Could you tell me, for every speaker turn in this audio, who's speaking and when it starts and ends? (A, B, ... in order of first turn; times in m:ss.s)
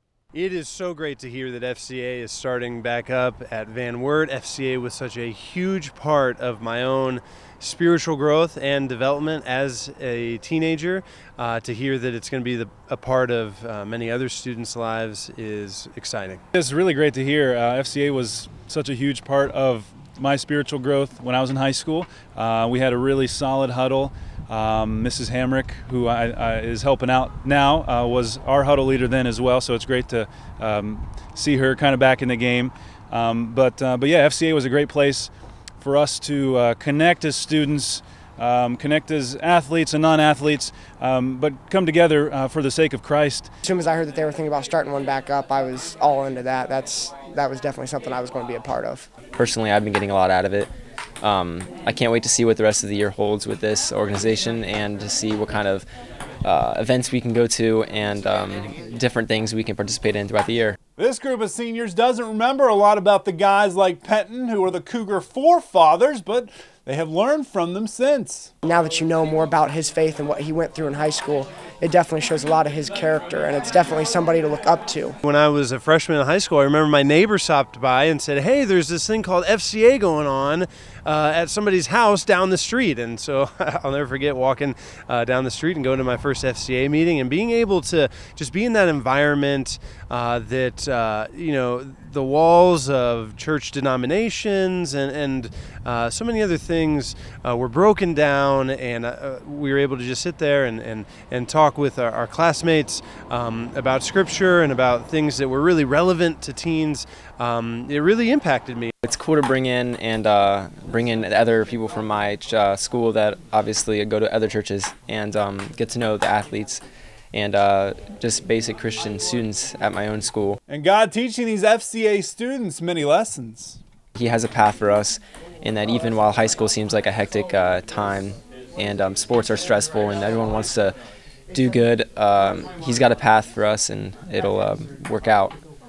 0:00.3-0:16.4 A
0:16.5-0:43.5 B
0:43.6-0:49.1 C
0:49.4-0:55.9 D
0:56.4-1:00.8 D
1:01.0-1:08.5 E
1:08.6-1:15.2 C
1:15.2-1:48.9 A
1:49.0-1:56.8 D
1:57.3-2:00.6 D
2:00.7-2:03.8 E
2:04.2-2:11.0 D
2:11.5-2:15.6 D